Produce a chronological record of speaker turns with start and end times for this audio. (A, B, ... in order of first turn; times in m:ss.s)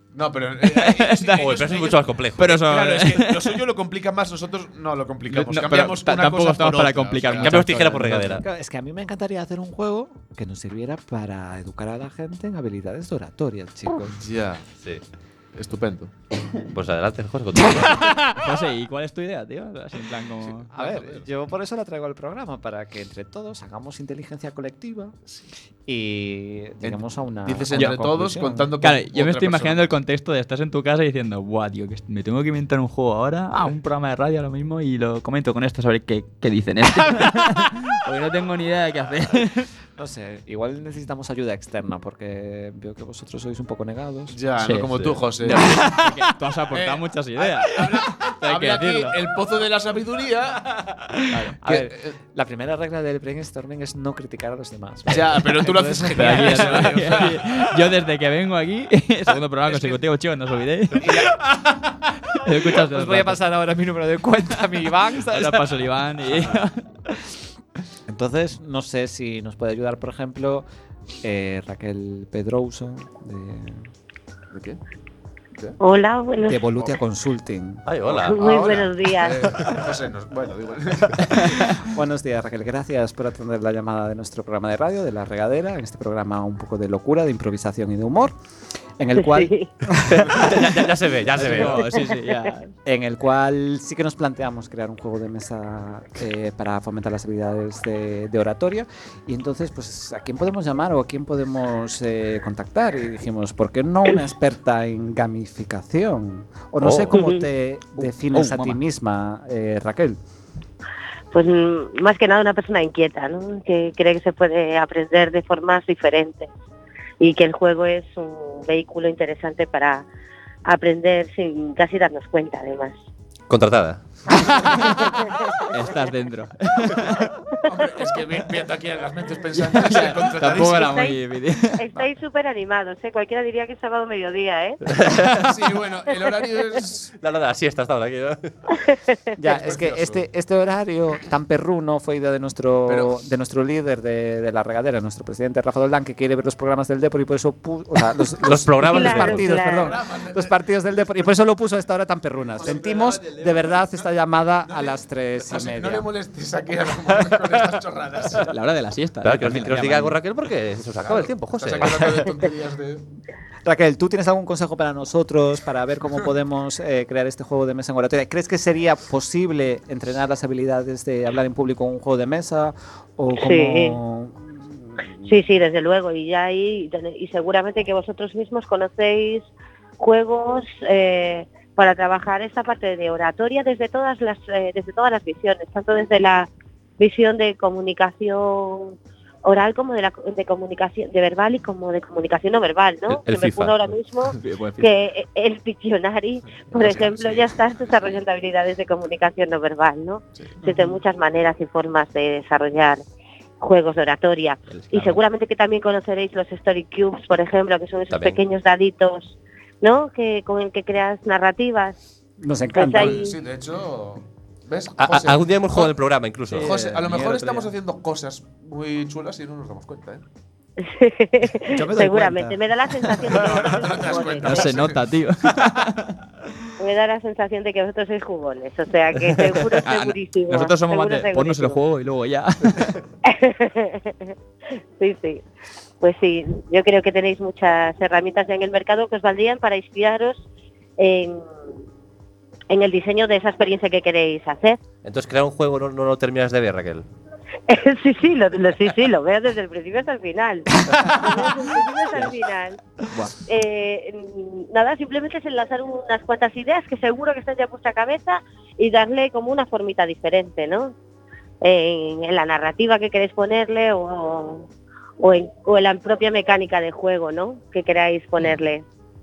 0:00.1-0:07.8 A
0:00.6-0:01.7 B
0:01.3-0:02.6 C
0:02.4-0:03.6 B
0:05.3-0:08.3 B
0:07.4-0:08.4 C
0:07.9-0:14.2 D
0:14.2-0:14.6 A
0:15.5-0:16.1 A
0:16.7-0:18.2 C
0:18.3-0:20.7 B
0:20.6-0:21.3 A
0:20.7-0:25.1 D
0:25.9-0:28.7 D
0:26.8-0:29.9 A
0:28.8-0:39.7 B
0:40.0-0:44.4 D
0:44.3-0:46.0 A
0:44.6-0:44.9 B
0:45.4-0:49.2 B
0:46.7-0:51.0 A
0:51.3-0:51.6 B
0:51.6-0:57.2 D
0:51.6-0:52.1 A
0:55.1-0:57.5 A
0:56.1-1:01.3 B
0:59.6-1:00.0 A
1:01.0-1:01.3 A
1:02.4-1:03.4 B
1:02.7-1:05.7 D
1:05.3-1:06.8 B
1:08.1-1:10.6 D
1:11.2-1:13.9 D
1:14.5-1:14.8 A
1:15.8-1:16.6 E
1:16.4-1:17.8 D
1:17.8-1:18.7 C
1:18.1-1:21.8 A
1:18.1-1:19.4 E
1:21.8-1:28.3 D
1:29.0-1:30.4 D
1:29.1-1:29.7 E
1:30.1-1:31.9 C
1:31.3-1:32.7 B
1:32.8-1:50.2 D
1:46.8-1:47.2 C
1:47.1-1:47.4 E
1:48.0-1:48.8 B
1:51.3-1:56.5 E
1:57.2-2:00.0 E
2:00.6-2:02.9 E
2:03.5-2:04.0 C
2:04.7-2:05.0 B
2:05.0-2:05.7 E
2:05.7-2:07.3 B
2:07.6-2:11.0 A
2:09.6-2:11.8 B
2:10.8-2:11.2 E
2:11.8-2:14.8 E
2:15.3-2:17.1 A
2:17.2-2:18.5 C
2:18.7-2:19.2 E
2:19.4-2:36.1 D
2:19.5-2:20.2 A
2:22.9-2:23.1 A
2:28.4-2:29.5 C
2:28.8-2:29.9 E
2:29.8-2:30.6 A
2:32.6-2:34.0 A
2:34.7-2:38.5 A
2:38.5-2:40.2 B
2:39.2-2:42.3 C
2:41.0-2:43.0 A
2:43.6-2:55.4 D
2:53.3-2:54.0 E
2:55.2-3:23.0 E
3:13.1-3:14.0 C
3:14.4-3:14.9 B
3:16.7-3:17.5 A
3:20.6-3:21.0 D
3:23.6-3:32.0 E
3:24.7-3:25.2 B
3:28.1-3:28.4 C
3:32.4-3:33.2 D
3:32.7-3:33.4 E
3:32.9-3:35.9 A
3:35.0-3:36.8 C
3:36.5-3:40.2 A
3:36.5-3:37.6 B
3:37.1-3:37.6 D
3:40.8-3:44.8 E
3:41.6-3:43.8 D
3:43.3-3:45.0 A
3:44.4-3:46.2 B
3:46.8-3:51.8 E
3:49.7-3:53.0 B
3:53.2-3:54.3 E
3:55.0-3:55.4 E
3:56.0-4:00.4 E
4:01.0-4:01.7 E
4:02.7-4:04.8 E
4:05.0-4:07.0 C
4:07.7-4:12.8 E
4:13.4-4:20.9 E
4:21.6-4:24.7 E
4:25.2-4:28.8 E